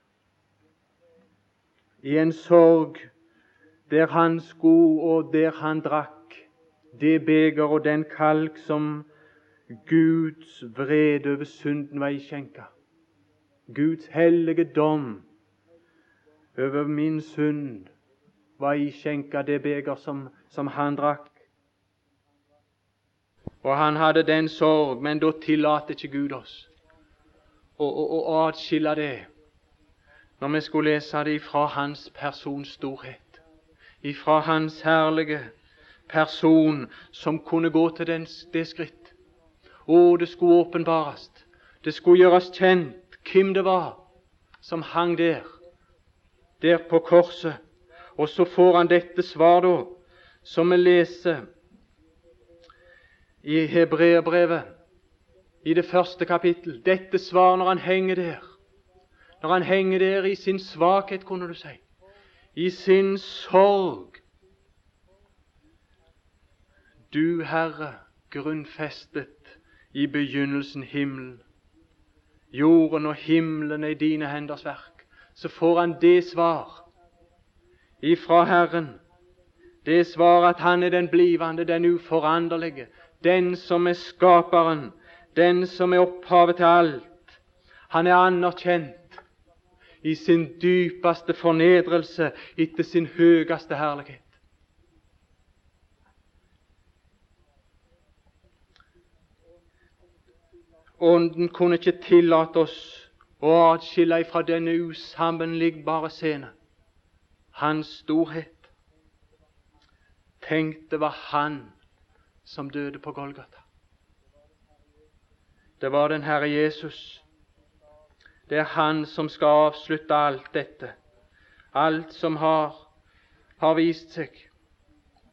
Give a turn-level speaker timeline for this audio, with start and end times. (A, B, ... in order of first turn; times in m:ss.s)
0:02.0-0:03.1 A
0:03.9-0:09.1 A
0:09.7-0:12.7 A
0:13.7-0:15.2 A
0:16.6-0:17.9 A
0:18.6-0:21.4 A
0:23.6-0:26.7 A
0:27.8-0:29.3 A
0:30.4-0:33.4 A
0:34.0-0:35.5 A
0:36.1-0:39.2 A
0:39.9-0:44.0 A
0:44.6-0:45.5 A
0:46.6-0:47.6 A
0:48.2-0:51.4 A
0:53.4-0:54.7 A
0:55.6-0:58.5 A
0:59.4-1:01.8 A
1:02.5-1:04.2 A
1:07.1-1:11.4 A
1:12.5-1:16.8 A
1:18.0-1:19.0 A
1:19.8-1:27.4 A
1:27.9-1:29.2 A
1:30.0-1:34.4 A
1:41.0-1:46.5 A
1:47.5-1:48.7 A
1:50.4-1:51.8 A
1:52.4-1:53.6 A
1:55.8-1:57.2 A
1:58.5-2:00.9 A
2:01.7-2:02.9 A
2:03.6-2:04.5 A